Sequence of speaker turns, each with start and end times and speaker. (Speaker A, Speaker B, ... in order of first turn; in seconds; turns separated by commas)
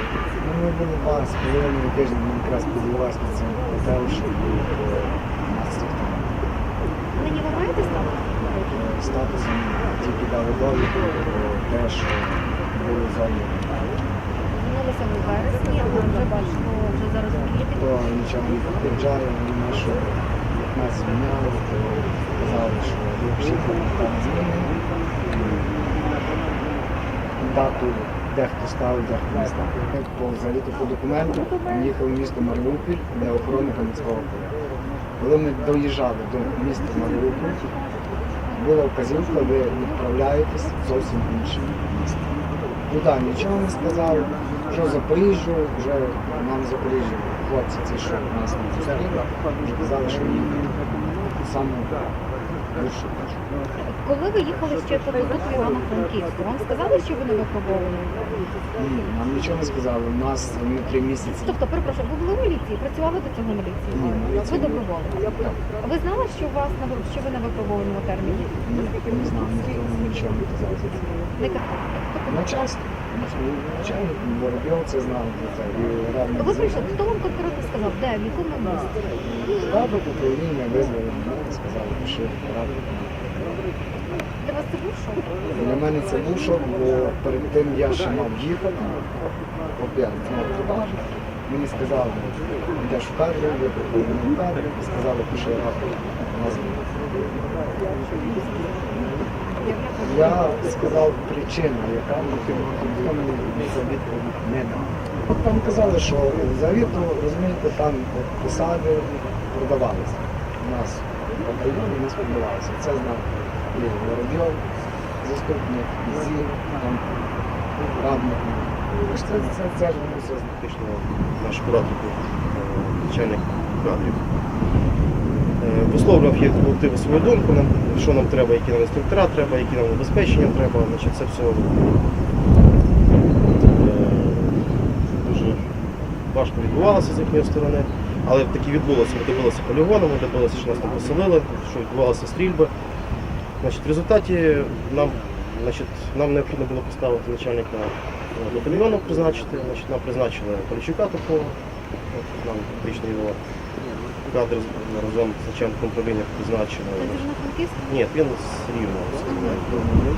Speaker A: 0.4-6.4, Speaker B: 7.2-8.3, Speaker A: 8.7-14.0, Speaker B: 14.5-17.8, Speaker A: 17.8-25.8, Speaker A: 27.4-34.5, Speaker A: 35.2-37.6, Speaker A: 38.5-52.1, Speaker A: 52.7-53.4, Speaker B: 53.9-58.5, Speaker A: 58.8-61.6, Speaker B: 61.3-68.5, Speaker A: 63.9-65.6, Speaker A: 68.6-71.1, Speaker B: 71.3-72.3, Speaker A: 72.2-76.8, Speaker B: 76.4-79.0, Speaker A: 79.2-83.6, Speaker B: 84.4-85.4, Speaker A: 85.5-89.1, Speaker A: 89.7-97.2, Speaker B: 98.1-99.0, Speaker B: 99.6-100.6, Speaker A: 100.0-114.6, Speaker A: 115.2-117.2, Speaker A: 117.9-120.5, Speaker C: 120.5-124.2, Speaker C: 125.6-132.0, Speaker C: 133.5-134.6, Speaker C: 135.1-135.7, Speaker C: 136.3-142.7, Speaker C: 143.6-151.6, Speaker C: 152.1-153.4, Speaker C: 154.2-157.3, Speaker B: 157.0-158.0, Speaker C: 157.9-159.8